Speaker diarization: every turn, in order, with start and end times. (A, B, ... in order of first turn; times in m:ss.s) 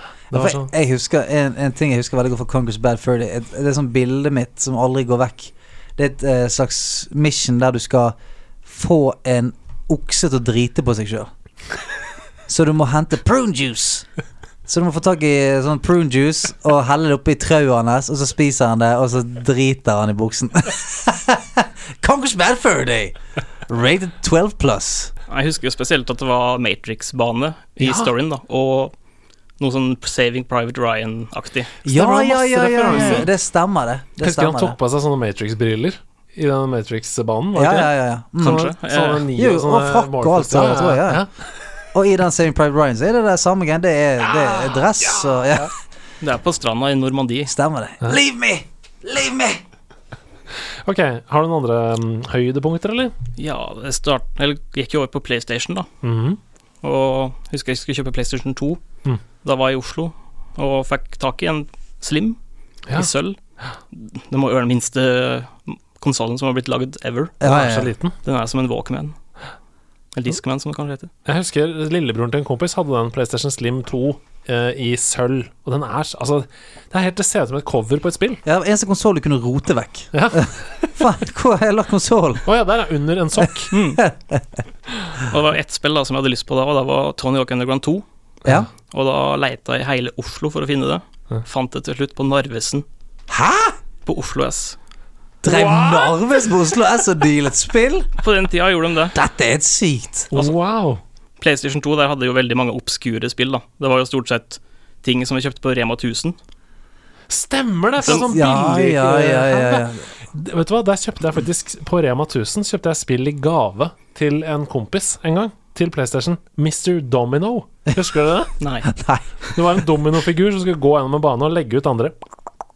0:00.3-0:00.7 A
0:00.3-0:11.3 B
0:12.5-0:14.1 B
0:14.7-0:23.2 B
0:23.7-0:25.1 B
0:25.3-0:28.9 C
0:27.8-0:28.1 A
0:29.6-0:31.8 C
0:31.8-0:33.3 A
0:31.8-0:34.8 B
0:32.8-0:33.2 C
0:34.2-0:41.4 A
0:37.5-0:38.7 B
0:38.4-0:39.3 C
0:39.3-0:41.3 B
0:41.9-0:45.7 B
0:44.3-0:45.6 A
0:46.2-0:47.5 C
0:47.5-0:49.6 B
0:50.8-0:53.1 A
0:53.4-0:55.9 C
0:56.0-0:56.4 A
0:56.8-0:58.8 C
0:59.4-1:02.4 C
1:02.9-1:03.4 C
1:03.9-1:07.3 C
1:07.4-1:07.9 B
1:07.4-1:08.2 A
1:08.2-1:09.2 C
1:10.2-1:11.1 C
1:11.2-1:18.4 A
1:18.4-1:22.5 B
1:20.1-1:20.5 A
1:22.4-1:23.7 A
1:23.6-1:24.4 B
1:23.7-1:24.0 C
1:25.3-1:28.0 C
1:28.9-1:32.8 C
1:33.3-1:33.8 B
1:34.0-1:34.8 C
1:35.4-1:38.1 B
1:35.4-1:36.3 A
1:38.2-1:39.2 C
1:39.1-1:40.3 B
1:40.3-1:41.0 A
1:41.4-1:46.4 C
1:47.3-1:58.5 A
1:48.0-1:50.0 B
1:58.6-1:58.9 C
1:58.9-1:59.6 B
1:59.6-2:02.2 A